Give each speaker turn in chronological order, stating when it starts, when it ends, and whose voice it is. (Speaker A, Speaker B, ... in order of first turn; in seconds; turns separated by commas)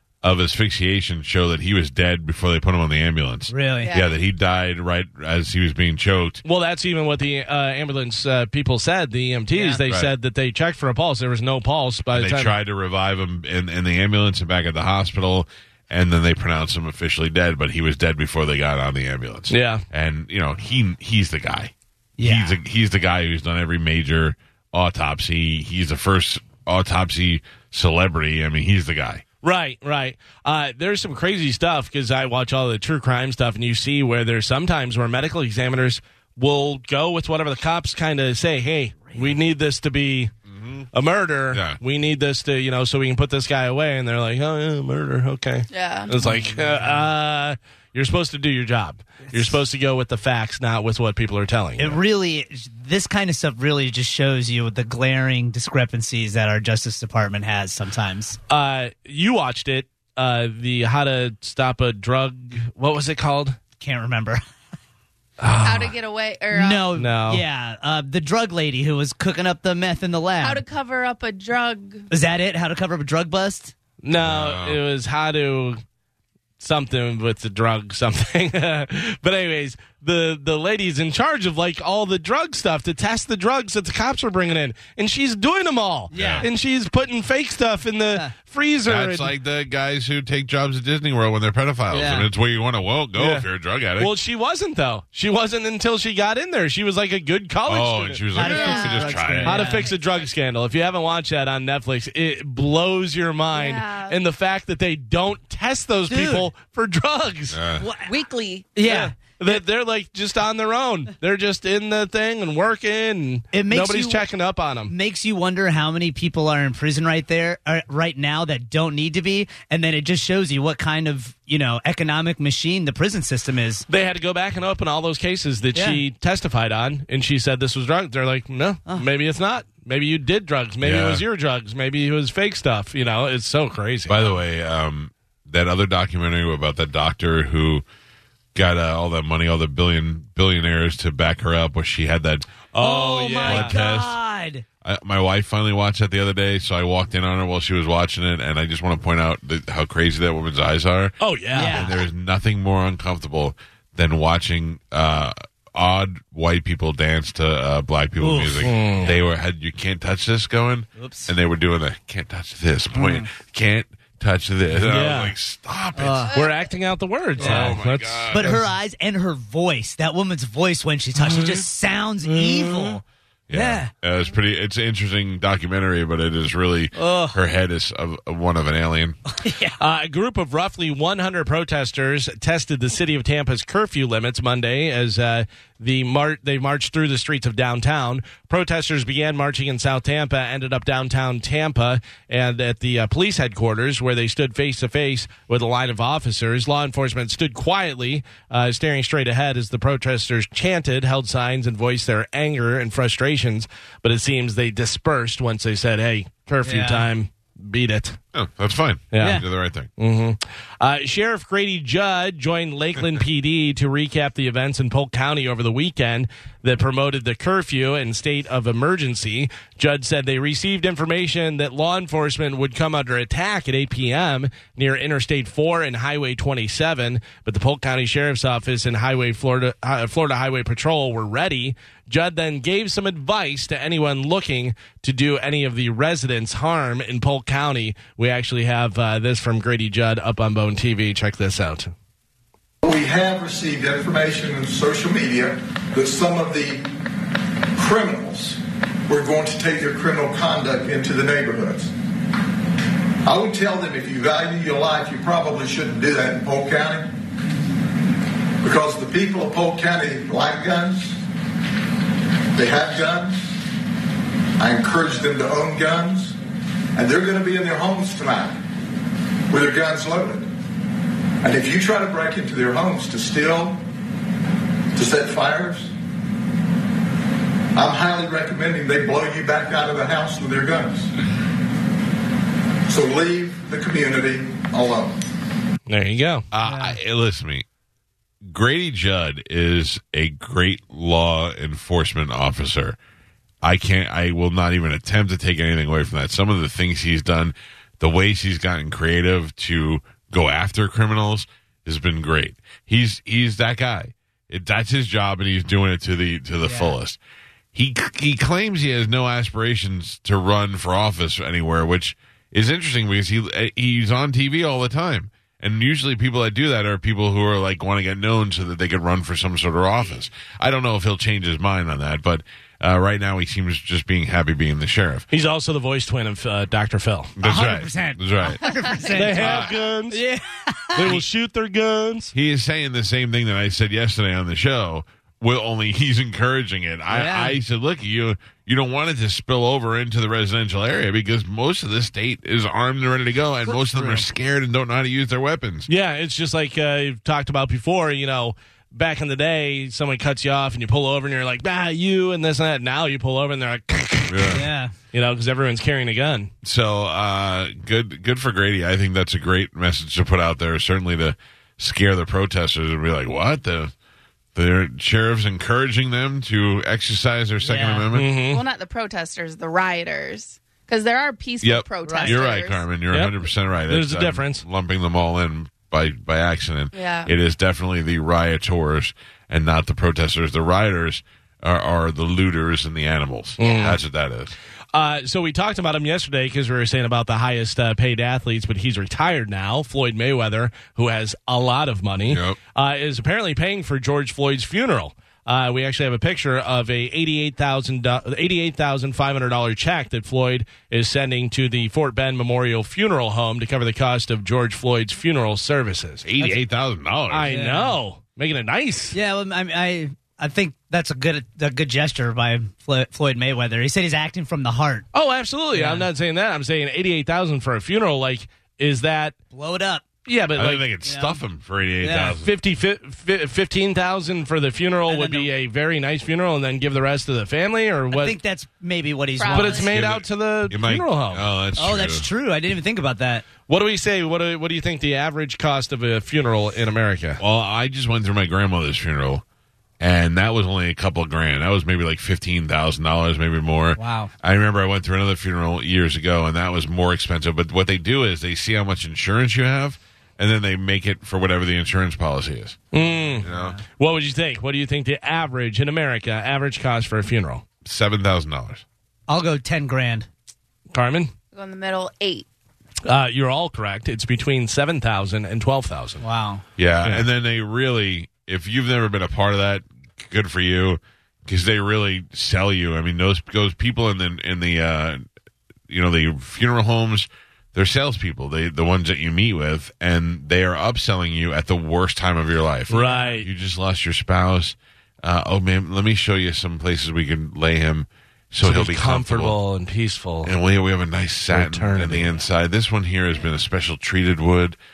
Speaker A: 0.2-6.4, Speaker B: 3.5-3.9, Speaker C: 3.8-4.2, Speaker D: 6.4-12.6, Speaker A: 9.8-10.1, Speaker A: 12.1-29.2, Speaker D: 19.5-19.8, Speaker B: 22.2-22.6, Speaker D: 29.4-40.3, Speaker A: 40.5-40.9, Speaker D: 40.9-52.0, Speaker A: 41.5-41.8, Speaker C: 45.7-46.1, Speaker B: 46.2-47.0, Speaker B: 51.8-58.4, Speaker D: 58.5-63.6, Speaker B: 63.8-64.4, Speaker D: 65.4-65.9, Speaker C: 65.6-66.9, Speaker B: 66.5-70.6, Speaker D: 67.0-67.4, Speaker C: 70.4-72.1, Speaker B: 72.1-73.7, Speaker D: 74.0-75.8, Speaker A: 74.2-74.8, Speaker D: 76.6-89.3, Speaker B: 86.1-86.4, Speaker A: 86.1-86.5, Speaker A: 88.9-94.1, Speaker B: 91.9-92.3, Speaker D: 93.2-93.5, Speaker D: 94.0-98.2, Speaker A: 97.7-99.7, Speaker B: 98.3-99.9, Speaker C: 98.4-99.2, Speaker D: 99.4-107.6, Speaker C: 103.5-104.2, Speaker B: 106.1-106.5, Speaker A: 107.5-107.9, Speaker B: 107.8-108.1, Speaker C: 108.0-108.7, Speaker B: 108.8-109.1, Speaker D: 108.8-114.9, Speaker B: 113.5-114.2, Speaker B: 114.9-123.8, Speaker D: 123.9-134.2, Speaker B: 125.8-126.0, Speaker A: 130.8-131.2, Speaker A: 134.1-137.8, Speaker A: 138.6-142.7, Speaker D: 142.7-143.8, Speaker B: 142.8-144.6, Speaker A: 143.4-144.2, Speaker A: 144.8-166.3, Speaker D: 151.2-151.9, Speaker B: 151.6-151.9, Speaker B: 158.2-159.1, Speaker D: 158.6-159.1, Speaker B: 161.0-161.3, Speaker B: 162.9-163.2, Speaker D: 164.8-165.3, Speaker B: 166.0-166.3, Speaker C: 166.3-166.6, Speaker D: 166.3-168.6, Speaker B: 167.4-167.8, Speaker A: 167.4-168.6, Speaker B: 168.3-173.9, Speaker D: 171.2-171.6, Speaker D: 172.2-173.0, Speaker A: 173.5-179.2, Speaker B: 176.9-177.4, Speaker B: 179.3-179.8, Speaker D: 179.8-208.2, Speaker B: 206.6-207.1, Speaker A: 208.3-209.9, Speaker D: 209.1-209.4, Speaker D: 210.0-241.9, Speaker E: 242.8-246.8, Speaker E: 247.8-251.9, Speaker E: 253.2-257.1, Speaker E: 258.6-261.2, Speaker E: 262.5-263.4, Speaker E: 264.6-266.4, Speaker E: 267.0-268.6, Speaker E: 269.5-270.5, Speaker E: 271.4-273.8, Speaker E: 275.0-275.9, Speaker E: 277.8-281.1, Speaker E: 282.9-285.2, Speaker D: 285.9-286.5, Speaker A: 286.5-287.6, Speaker B: 286.6-287.0, Speaker A: 288.4-293.0, Speaker A: 293.6-307.2, Speaker B: 306.6-307.0, Speaker A: 307.7-325.3, Speaker D: 325.3-327.3, Speaker A: 327.4-328.7, Speaker B: 327.4-331.1, Speaker D: 329.1-330.2, Speaker A: 329.2-329.8, Speaker D: 331.0-332.3, Speaker A: 332.3-345.9, Speaker B: 337.1-337.6, Speaker B: 343.7-344.2, Speaker D: 345.9-354.6, Speaker A: 354.3-354.6, Speaker B: 354.5-354.9, Speaker D: 355.1-356.5, Speaker A: 356.6-363.9, Speaker A: 364.5-368.3, Speaker B: 367.6-368.1, Speaker D: 368.1-368.6, Speaker C: 368.5-372.9, Speaker A: 371.6-384.5, Speaker B: 372.0-372.4, Speaker D: 373.1-374.6, Speaker C: 376.9-377.3, Speaker D: 383.6-384.0, Speaker D: 384.9-406.2, Speaker A: 392.3-392.6, Speaker A: 406.2-407.5, Speaker D: 407.3-409.1, Speaker B: 407.5-408.0, Speaker B: 409.1-415.1, Speaker D: 415.1-419.4, Speaker B: 415.7-416.1, Speaker B: 419.5-420.0, Speaker D: 420.2-420.9, Speaker A: 420.6-422.5, Speaker B: 421.0-421.4, Speaker B: 422.0-422.4, Speaker D: 422.4-428.4, Speaker B: 425.1-425.5, Speaker B: 428.1-429.9, Speaker C: 429.4-429.9, Speaker D: 429.5-431.5, Speaker A: 429.8-432.3, Speaker B: 431.8-433.4, Speaker D: 433.7-437.4, Speaker A: 437.4-439.4, Speaker A: 440.0-452.9, Speaker B: 444.0-444.3, Speaker D: 452.9-457.6, Speaker B: 453.0-453.8, Speaker A: 453.4-453.8, Speaker A: 457.9-458.8, Speaker B: 459.3-460.3, Speaker D: 460.9-461.3, Speaker C: 461.5-462.5, Speaker D: 463.0-466.2, Speaker B: 466.2-466.6, Speaker A: 466.8-475.2, Speaker A: 475.9-489.6, Speaker D: 482.9-483.5, Speaker D: 488.6-490.5, Speaker A: 490.4-494.8, Speaker D: 491.5-492.3